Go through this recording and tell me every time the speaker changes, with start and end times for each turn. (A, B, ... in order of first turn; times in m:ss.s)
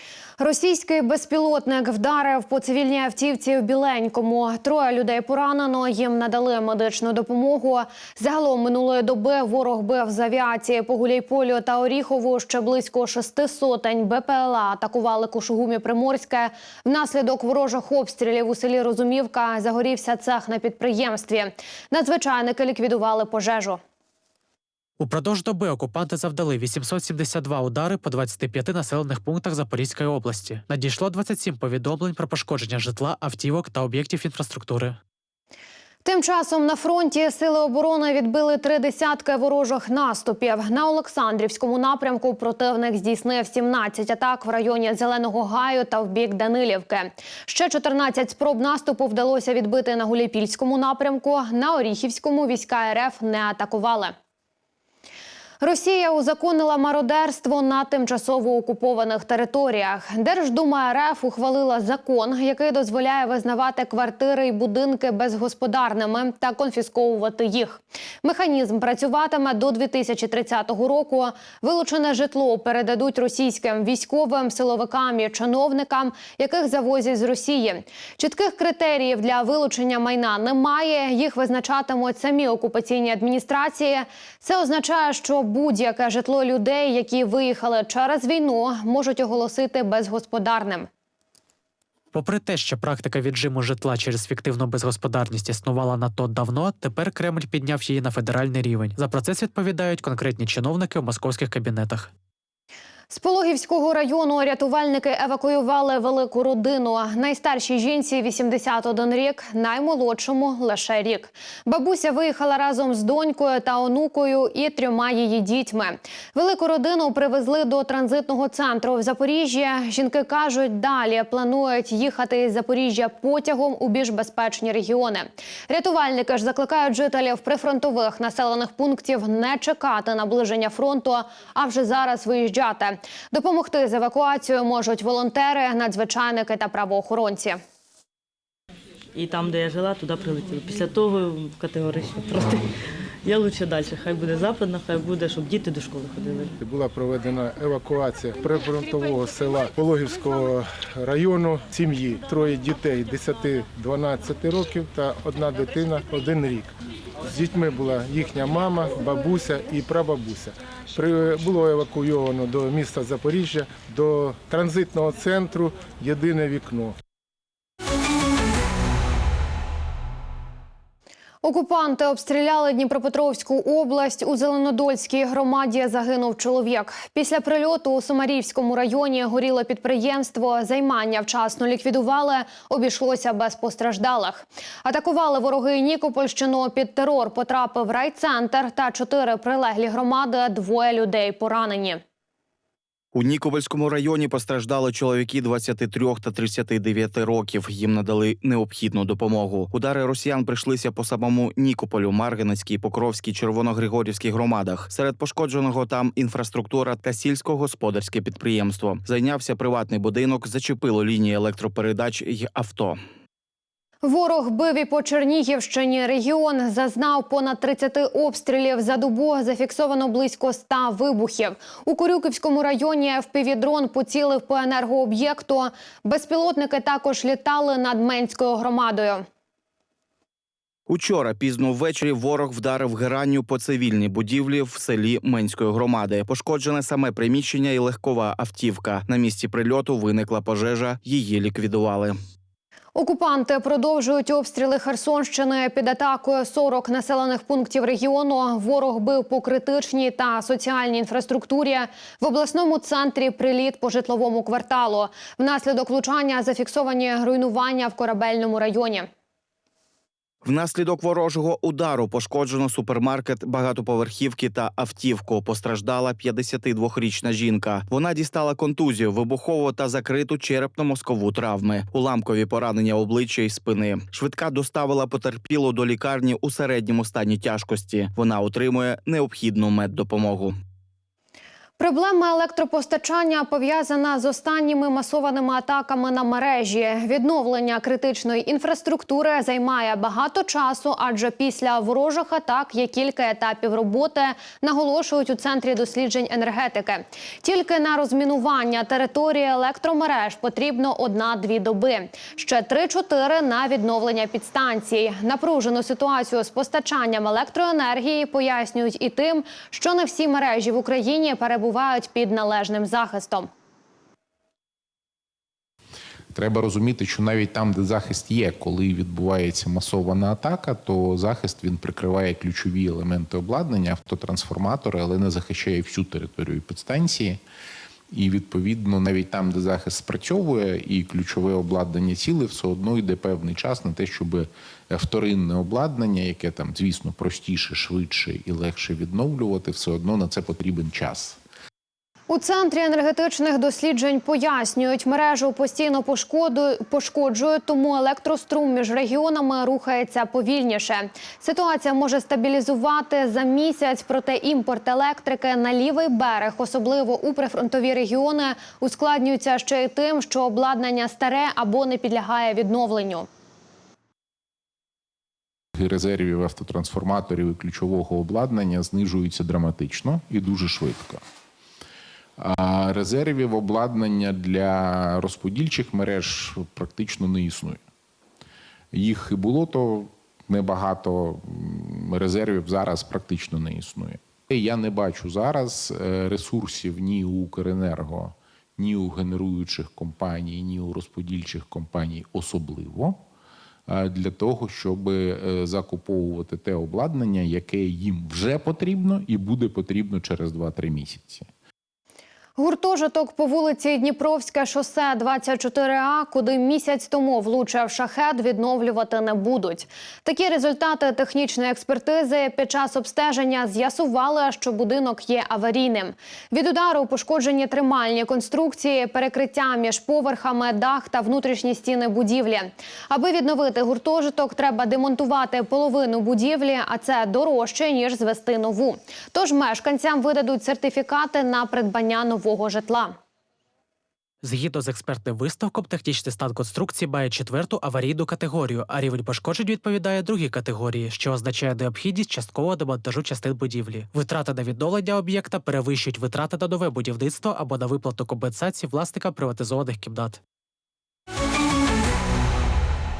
0:00.4-0:23.8 A
0:25.0-0:35.0 B
0:36.0-0:54.1 A
0:55.6-1:30.9 A
1:32.1-1:42.1 B
1:43.1-2:17.6 A
2:19.1-2:22.7 C
2:23.2-2:26.6 C
2:26.6-2:36.7 D
2:37.3-2:47.0 D
2:51.4-3:12.0 A
3:13.1-3:33.0 E
3:34.0-3:49.2 A
3:50.9-4:02.1 E
4:02.9-4:19.1 A
4:20.4-4:40.5 E
4:41.8-5:13.5 A
5:16.3-5:27.4 F
5:28.1-5:41.4 F
5:42.3-6:03.3 A
6:05.8-6:11.2 F
6:12.4-6:17.8 F
6:18.9-6:33.2 F
6:33.9-6:41.4 F
6:42.6-7:13.2 A
7:14.4-7:30.4 B